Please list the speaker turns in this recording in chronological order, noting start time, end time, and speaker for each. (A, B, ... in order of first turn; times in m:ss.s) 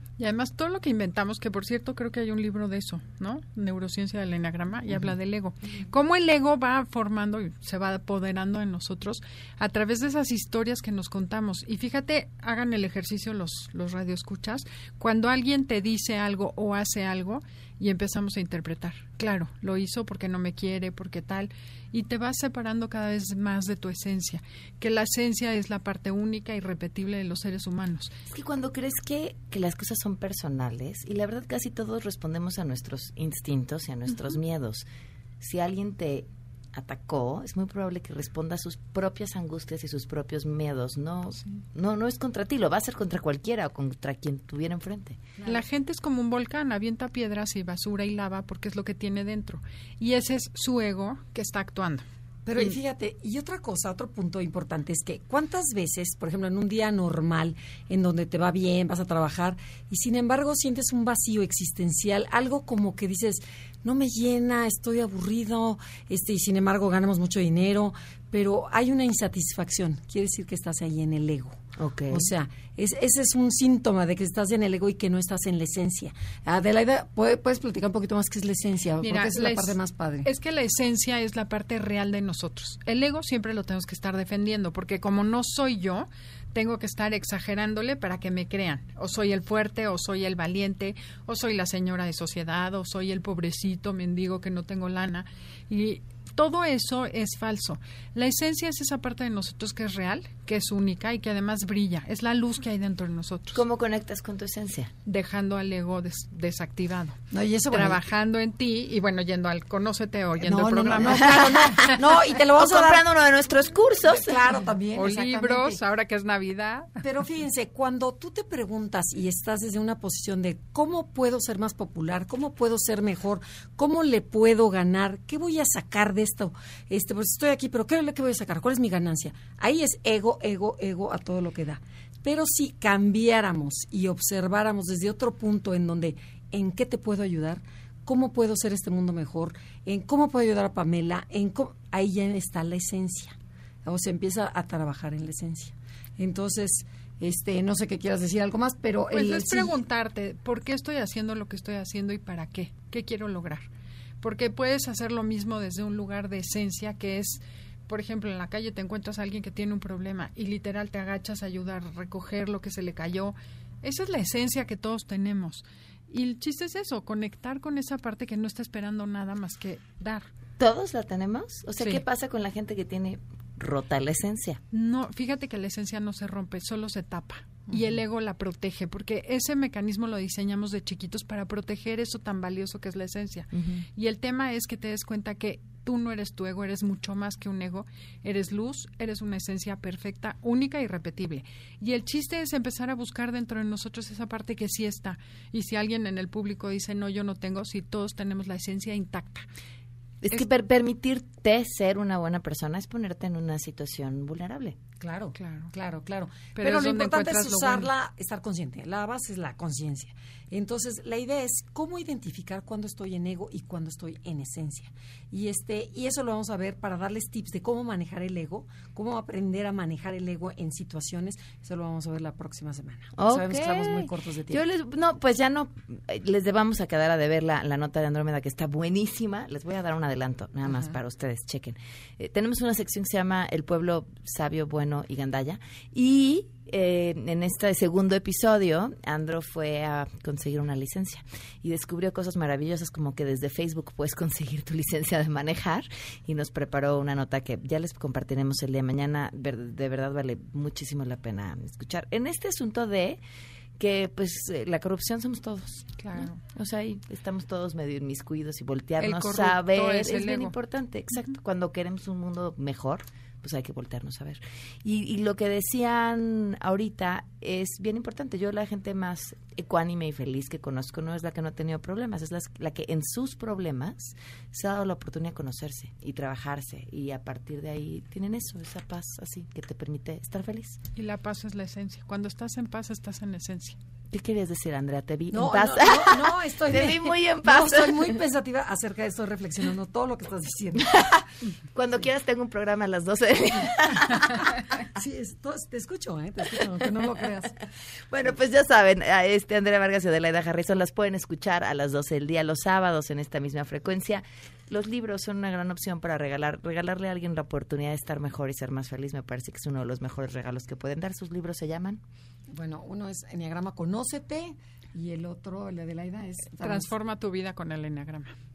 0:00.2-0:28.1 A
0:28.3-0:34.8 B
0:35.4-0:45.2 B
0:45.4-0:52.0 A
0:52.4-1:20.3 C
1:11.8-1:12.3 B
1:19.0-1:43.6 A
1:43.5-1:44.9 B
1:45.0-1:52.1 A
1:47.3-1:48.0 C
1:50.4-1:53.0 C
1:52.6-1:54.4 B
1:54.0-1:55.8 C
1:55.0-1:57.0 A
1:57.0-2:29.8 C
2:29.1-2:33.7 A
2:34.2-2:50.3 A
2:50.6-2:54.6 B
2:54.7-3:19.4 A
3:03.5-3:03.8 B
3:20.2-3:24.8 B
3:25.0-3:44.6 C
3:25.4-3:25.7 A
3:26.5-3:27.9 A
3:43.1-4:13.2 B
4:13.8-4:40.8 B
4:16.0-4:16.4 A
4:19.0-4:20.5 A
4:41.0-4:43.8 A
4:44.1-4:48.2 B
4:45.3-4:51.2 C
4:50.8-4:51.1 B
4:51.7-4:54.4 B
4:55.0-4:57.6 C
4:58.1-5:12.0 B
5:12.5-5:16.9 C
5:16.5-5:18.3 A